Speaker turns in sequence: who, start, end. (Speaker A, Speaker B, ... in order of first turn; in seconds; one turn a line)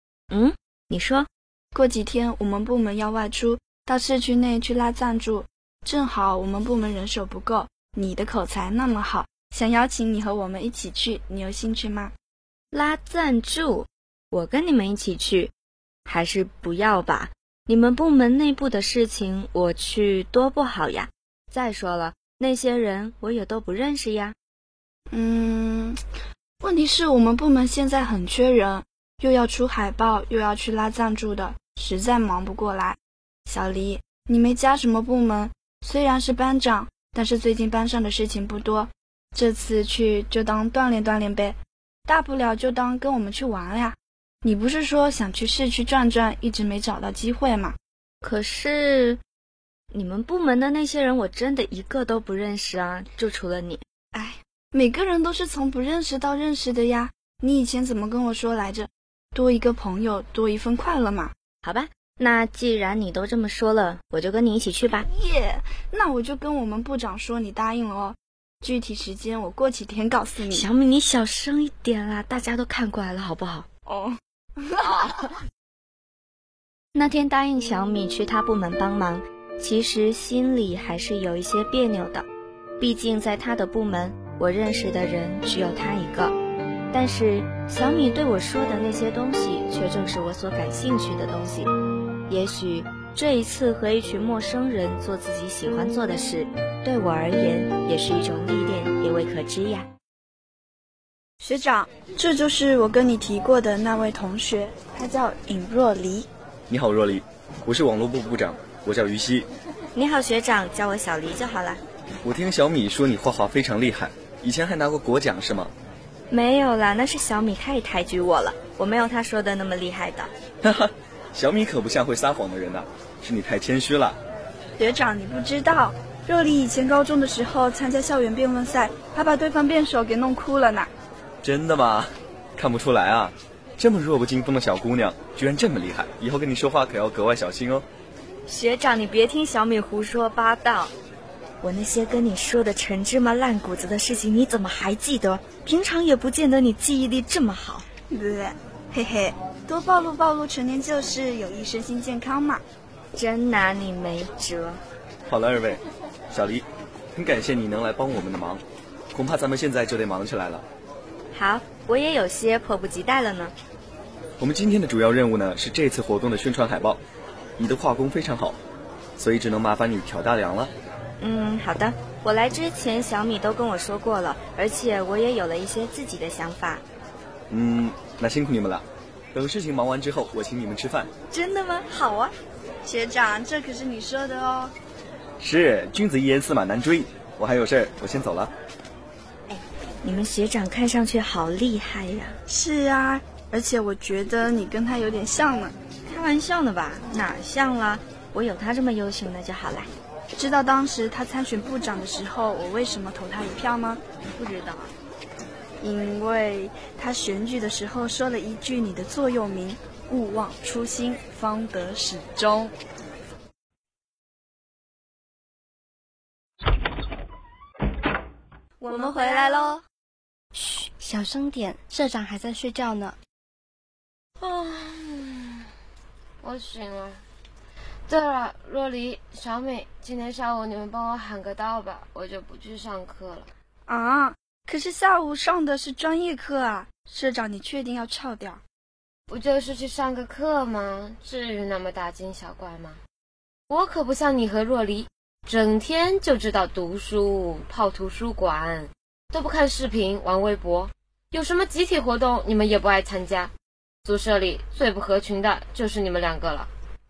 Speaker A: 0.3-1.3
Speaker B: 1.7-12.1
Speaker A: 12.7-15.5
Speaker A: 16.1-24.4
Speaker B: 25.1-26.0
Speaker B: 26.6-47.8
Speaker A: 48.2-49.2
Speaker A: 49.9-53.8
Speaker B: 54.1-61.3
Speaker A: 61.6-65.1
Speaker B: 65.1-70.7
Speaker A: 70.5-73.7
Speaker B: 73.9-75.0
Speaker A: 74.8-75.3
Speaker A: 76.9-82.2
Speaker A: 82.8-86.3
Speaker A: 86.9-91.7
Speaker A: 92.3-99.9
Speaker B: 101.4-106.3
Speaker C: 106.7-109.5
Speaker A: 109.9-111.8
Speaker C: 112.2-115.7
Speaker A: 116.3-120.3
Speaker C: 120.6-124.2
Speaker B: 124.8-130.9
Speaker C: 131.4-137.8
Speaker A: 138.5-140.9
Speaker A: 141.6-147.9
Speaker B: 148.1-152.6
Speaker A: 153.1-154.8
Speaker C: 155.3-158.6
Speaker C: 159.1-160.6
Speaker A: 161.3-163.5
Speaker C: 164.4-167.0
Speaker C: 167.6-168.6
Speaker C: 169.2-170.7
Speaker A: 171.2-176.8
Speaker C: 177.5-181.1
Speaker A: 181.3-182.3
Speaker B: 182.8-184.7
Speaker C: 185.4-188.5
Speaker A: 189.5-192.4
Speaker B: 192.5-195.7
Speaker A: 196.1-199.9
Speaker B: 200.4-204.0
Speaker A: 204.4-204.9
Speaker B: 205.8-212.7
Speaker B: 218.8-219.8
Speaker D: 218.8-219.8
Speaker D: 220.5-223.2
Speaker E: 224.4-225.7
Speaker E: 226.4-227.2
Speaker E: 228.1-233.5
Speaker B: 233.9-238.6
Speaker E: 239.3-243.0
Speaker E: 243.7-253.5
Speaker E: 254.0-256.7